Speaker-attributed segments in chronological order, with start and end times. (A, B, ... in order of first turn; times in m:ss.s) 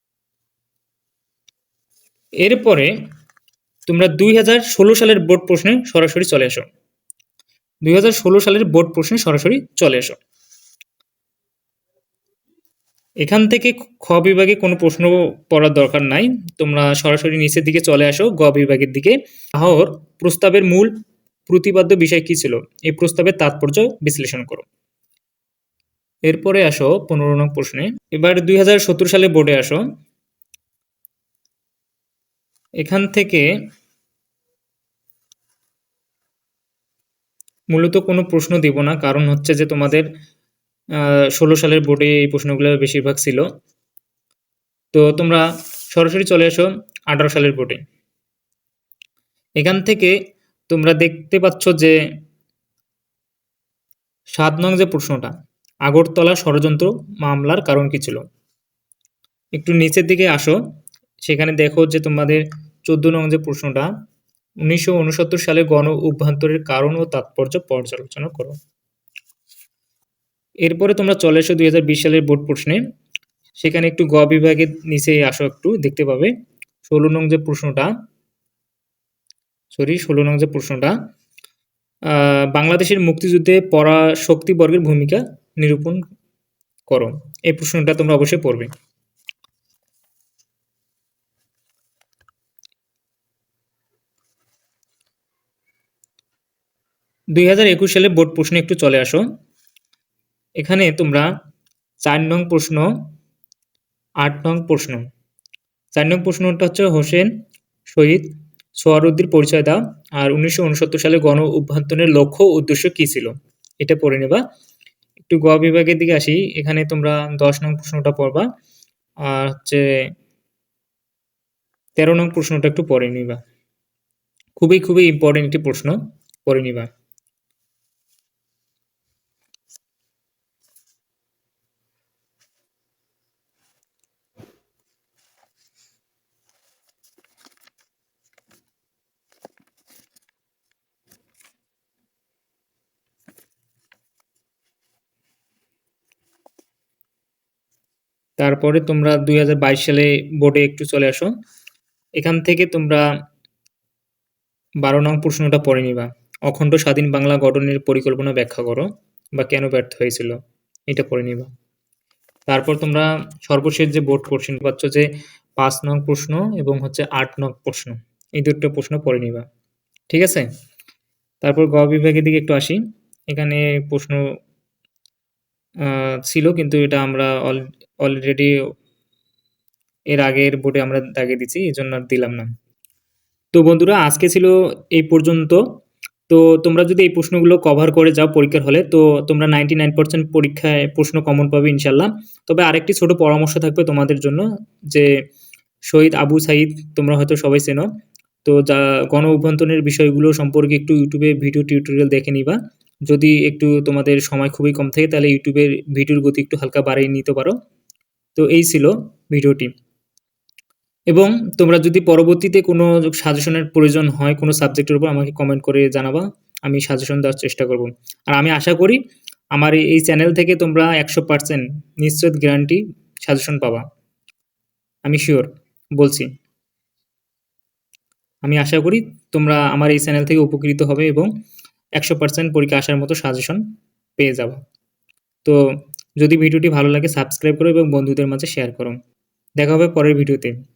0:02.4-0:02.9 A
0:03.9-0:06.7 A
0:07.8-0:10.2 A
0:13.2-0:20.9 A
0:21.5-0:24.7 A
0:26.3-0:29.9 A
0:32.8-0:33.5 A
0:37.7-0:40.1 A
0:41.0-0:43.4 A
0:44.9-0:47.8 A
0:49.6-0:50.2 A
0:50.7-0:52.0 A
0:54.4-0:55.3 A
0:55.8-0:58.2 A
0:59.6-1:00.6 A
1:01.2-1:03.9 A
1:04.6-1:08.6 A
1:10.6-1:12.8 A
1:13.6-1:16.3 A
1:16.9-1:17.9 A
1:19.7-1:21.0 A
1:22.1-1:26.0 A
1:26.9-1:28.7 A
1:37.3-1:39.2 A
1:40.6-1:41.3 A
1:42.0-1:42.9 A
1:44.2-1:45.0 A
1:46.0-1:47.3 A
1:47.9-1:54.4 A
1:55.2-1:58.5 A
1:59.2-2:00.1 A
2:02.0-2:03.4 A
2:04.6-2:06.9 A
2:28.4-2:31.3 A
2:32.2-2:33.0 A
2:34.8-2:40.4 A
2:40.9-2:41.5 A
2:42.5-2:49.4 A
2:50.1-2:50.5 A
2:51.4-2:54.2 A
2:55.8-2:58.6 A
3:00.1-3:02.5 A
3:03.5-3:05.6 A
3:06.3-3:15.1 A
3:15.9-3:17.9 A
3:18.4-3:22.6 A
3:23.1-3:27.6 A
3:28.4-3:29.7 A
3:31.1-3:39.0 A
3:39.5-3:43.8 A
3:45.0-3:46.3 A
3:48.4-3:51.3 A
3:52.0-3:53.6 A
3:54.2-3:54.6 A
3:56.2-3:59.0 A
3:59.6-4:00.6 A